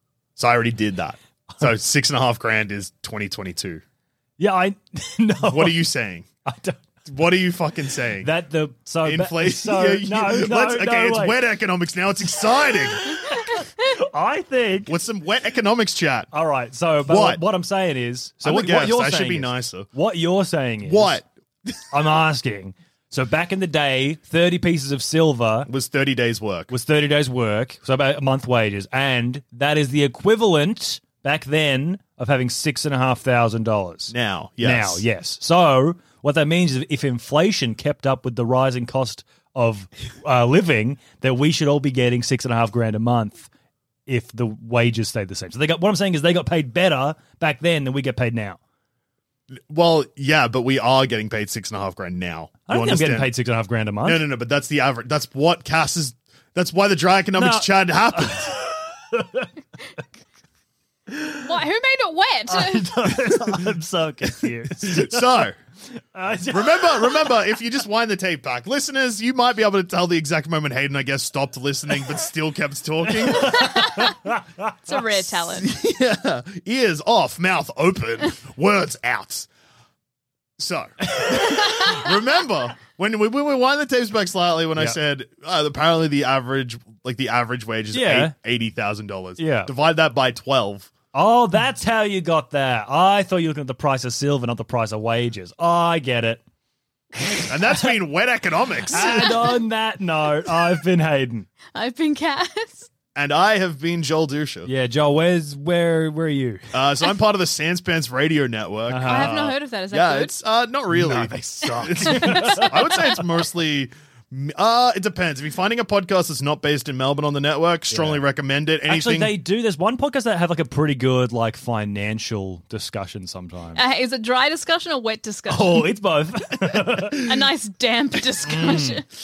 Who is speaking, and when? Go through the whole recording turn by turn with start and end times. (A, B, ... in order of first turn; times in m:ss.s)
0:00.4-0:03.8 A
0:04.4-0:05.9 B
0:05.5-0:06.3 A
0:06.4-0:06.9 B
0:07.1-0:08.3 A
0:08.2-0:11.4 B
0:09.0-0:13.4 A
0:13.6-0:14.9 B
0:14.9-0:16.3 A
0:16.3-0:21.2 B
0:17.1-0:17.4 A
0:18.4-0:19.9 A
0:20.8-0:21.8 A
0:21.9-0:25.7 B
0:25.7-0:26.7 A
0:26.7-0:43.5 B
0:34.1-0:35.0 A
0:44.1-0:48.6 B
0:49.6-0:53.3 A
0:52.7-0:54.2 B
0:54.0-0:58.5 A
0:57.4-0:59.5 B
1:01.1-1:01.5 B
1:01.4-1:02.9 C
1:02.5-1:07.4 B
1:04.8-1:05.6 A
1:06.5-1:13.8 A
1:13.1-1:14.9 B
1:13.5-1:14.1 C
1:14.9-1:15.7 C
1:15.4-1:19.5 A
1:20.6-1:30.9 A
1:27.9-1:28.3 B
1:29.4-1:29.7 B
1:31.1-1:36.4 B
1:37.2-1:37.9 B
1:37.4-1:39.5 A
1:38.9-1:41.5 B
1:41.7-1:42.9 C
1:43.1-1:44.7 A
1:44.7-1:46.6 B
1:46.7-1:59.4 A
1:48.9-1:49.4 B
1:49.1-1:50.3 C
1:50.9-1:53.0 B
1:52.3-1:52.9 C
1:57.9-1:58.2 B
1:58.9-2:03.8 B
2:03.8-2:05.9 C
2:05.5-2:07.3 B
2:07.1-2:09.0 C
2:08.4-2:09.0 B